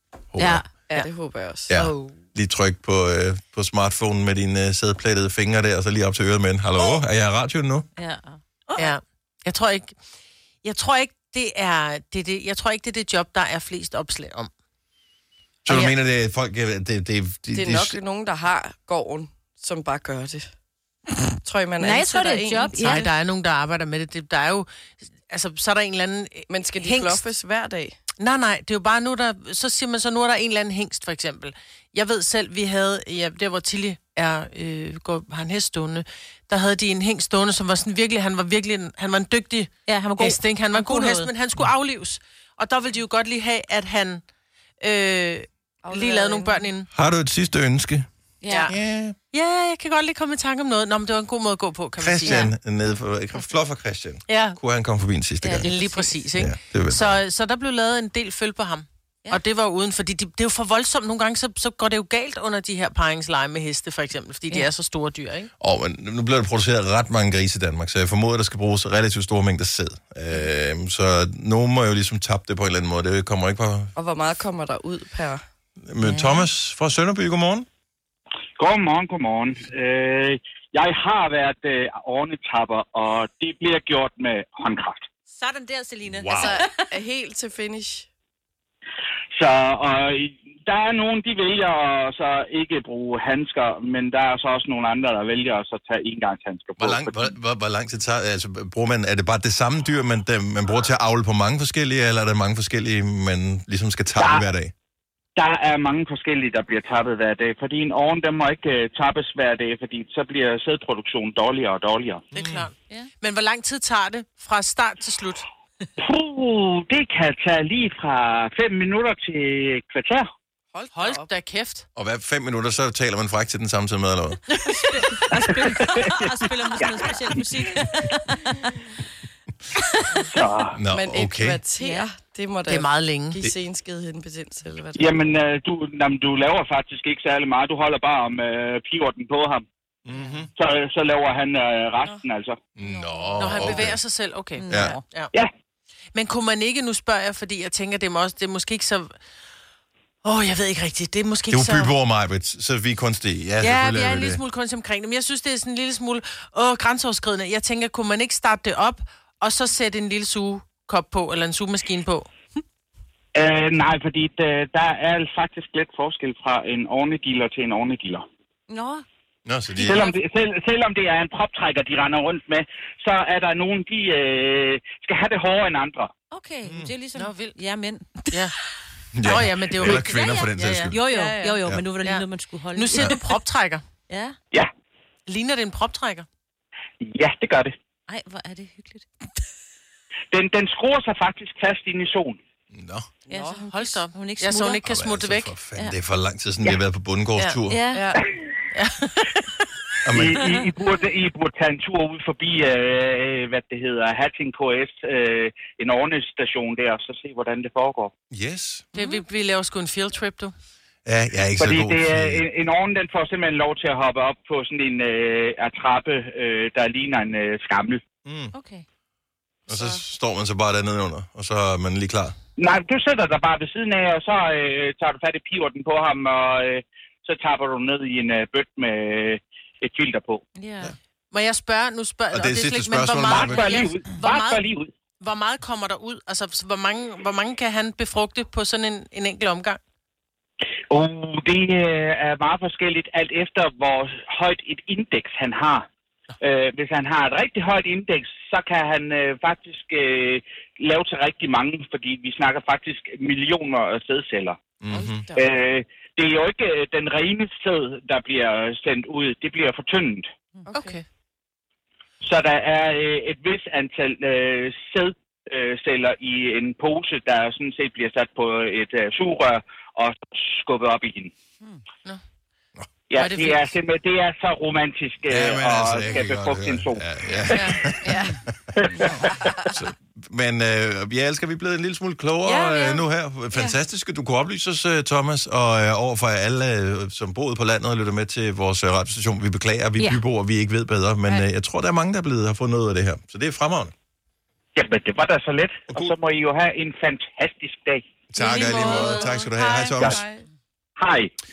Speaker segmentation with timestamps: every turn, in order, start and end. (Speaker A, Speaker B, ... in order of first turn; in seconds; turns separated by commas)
Speaker A: 0.3-0.6, Speaker B: 0.4-0.7, Speaker C: 0.9-1.9, Speaker A: 1.7-7.9, Speaker B: 8.0-8.9, Speaker D: 8.8-10.0, Speaker D: 10.6-14.5, Speaker A: 15.7-18.0, Speaker C: 17.5-20.5, Speaker C: 21.4-23.0, Speaker B: 21.8-23.1, Speaker D: 22.8-24.7, Speaker D: 25.2-27.2, Speaker C: 26.5-28.0, Speaker D: 28.2-44.2, Speaker B: 39.9-41.3, Speaker D: 44.8-46.9, Speaker C: 45.8-46.7, Speaker A: 46.9-48.1, Speaker B: 48.4-48.7, Speaker A: 48.7-49.2, Speaker D: 49.3-52.5, Speaker A: 52.0-55.7, Speaker B: 52.3-52.5, Speaker D: 54.3-54.6, Speaker B: 55.4-56.1, Speaker D: 55.6-65.5, Speaker A: 56.4-57.2, Speaker A: 65.6-73.9, Speaker C: 74.0-75.4, Speaker A: 75.8-77.7, Speaker B: 76.0-76.5, Speaker E: 78.6-85.0, Speaker B: 85.3-86.8, Speaker A: 86.1-86.6, Speaker C: 86.3-88.1, Speaker E: 89.3-97.2, Speaker A: 96.8-104.7, Speaker E: 104.2-104.4, Speaker E: 105.4-112.2, Speaker D: 112.3-115.5, Speaker A: 112.3-112.7, Speaker E: 116.0-120.3, Speaker C: 120.7-121.3, Speaker D: 120.9-121.9, Speaker A: 122.0-124.4, Speaker B: 124.9-128.8, Speaker E: 125.8-126.3, Speaker E: 130.2-130.8, Speaker A: 130.8-131.6, Speaker C: 130.9-135.3, Speaker B: 131.8-132.1, Speaker D: 132.7-133.4, Speaker E: 135.0-139.7, Speaker A: 140.1-140.5, Speaker E: 140.6-142.6, Speaker A: 142.8-144.0, Speaker B: 142.9-143.7, Speaker D: 143.4-145.3, Speaker B: 144.6-145.0, Speaker A: 144.7-145.0, Speaker D: 146.1-149.1, Speaker D: 150.2-151.9, Speaker A: 151.5-154.4, Speaker D: 153.6-162.3, Speaker E: 163.3-168.3, Speaker B: 168.7-169.0, Speaker A: 169.4-170.1, Speaker E: 169.8-176.1, Speaker B: 169.8-170.1, Speaker B: 176.3-178.3, Speaker D: 177.2-177.6, Speaker D: 178.3-178.6, Speaker A: 179.2-181.0, Speaker D: 179.2-181.1, Speaker B: 179.8-183.2, Speaker C: 181.1-181.6, Speaker D: 182.0-183.8, Speaker B: 184.1-184.4, Speaker D: 185.3-186.3, Speaker E: 187.0-187.7, Speaker B: 188.1-189.1, Speaker E: 190.3-192.4, Speaker A: 192.7-193.1, Speaker C: 193.3-193.6, Speaker B: 193.3-194.8, Speaker D: 193.7-195.5, Speaker A: 194.8-197.8, Speaker B: 197.7-198.1, Speaker C: 197.9-198.3, Speaker D: 198.7-199.5, Speaker A: 200.1-200.5, Speaker E: 200.1-208.1, Speaker A: 208.3-208.9, Speaker B: 208.9-209.2, Speaker D: 208.9-210.5, Speaker A: 211.1-212.4, Speaker E: 211.6-218.0, Speaker A: 218.2-218.5, Speaker B: 218.5-218.8, Speaker A: 219.7-222.4, Speaker E: 222.6-230.4, Speaker B: 230.6-230.9, Speaker D: 231.3-234.7, Speaker A: 232.3-233.8, Speaker E: 233.3-234.9, Speaker D: 235.2-239.8, Speaker E: 240.9-245.8, Speaker E: 246.4-254.6, Speaker A: 254.8-255.3, Speaker C: 254.9-255.4, Speaker E: 255.4-260.3, Speaker C: 260.7-261.0, Speaker D: 260.7-261.0, Speaker E: 262.2-271.3, Speaker E: 273.1-277.0, Speaker D: 273.2-273.7, Speaker A: 275.3-278.3, Speaker C: 277.5-278.4, Speaker E: 278.8-279.1, Speaker C: 278.9-279.8, Speaker A: 279.6-293.9, Speaker C: 282.5-282.9, Speaker E: 294.8-298.0, Speaker A: 295.9-296.1, Speaker A: 298.3-300.2, Speaker D: 298.4-300.0, Speaker C: 298.7-300.4, Speaker E: 301.0-301.3